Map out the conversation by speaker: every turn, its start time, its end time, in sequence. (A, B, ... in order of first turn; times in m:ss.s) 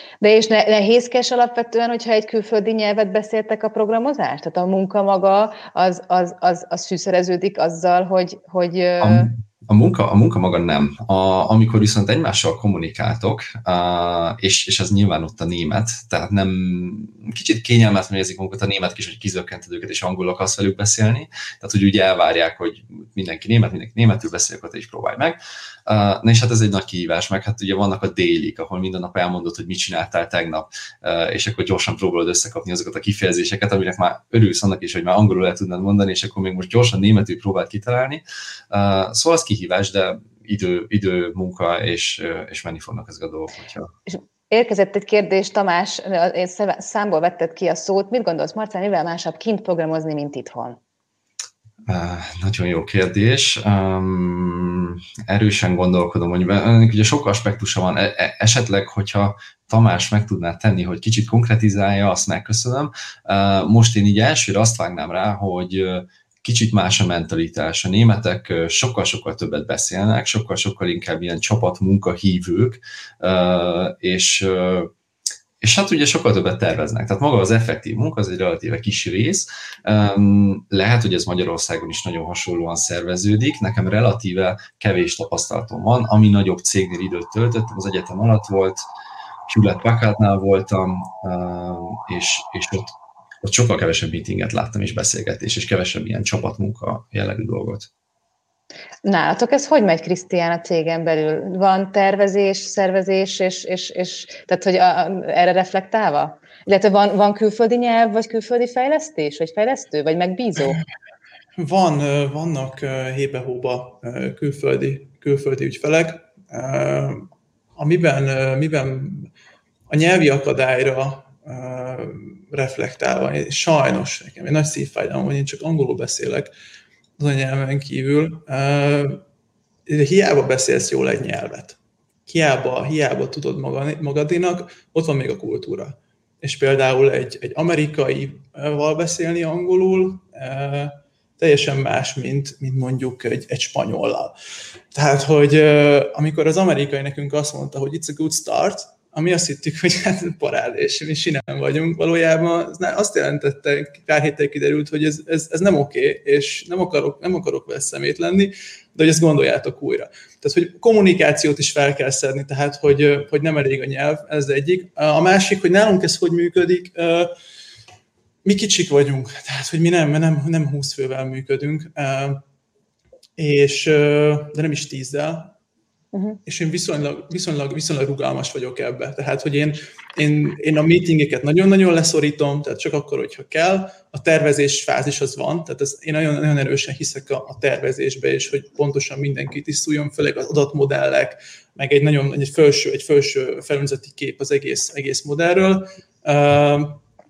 0:00.2-0:09.3 A
0:09.0-0:43.9 B
0:44.1-0:50.8 A
0:51.9-1:14.9 B
1:15.6-1:28.8 B
1:29.5-1:37.9 B
1:39.0-1:50.8 A
1:51.6-1:59.3 C
1:59.9-2:06.5 C
2:07.2-2:09.2 C
2:09.9-2:24.4 C
2:24.9-2:47.3 C
2:48.4-2:52.4 C
2:53.4-2:55.5 C
2:56.1-2:56.4 A
2:56.4-3:17.0 C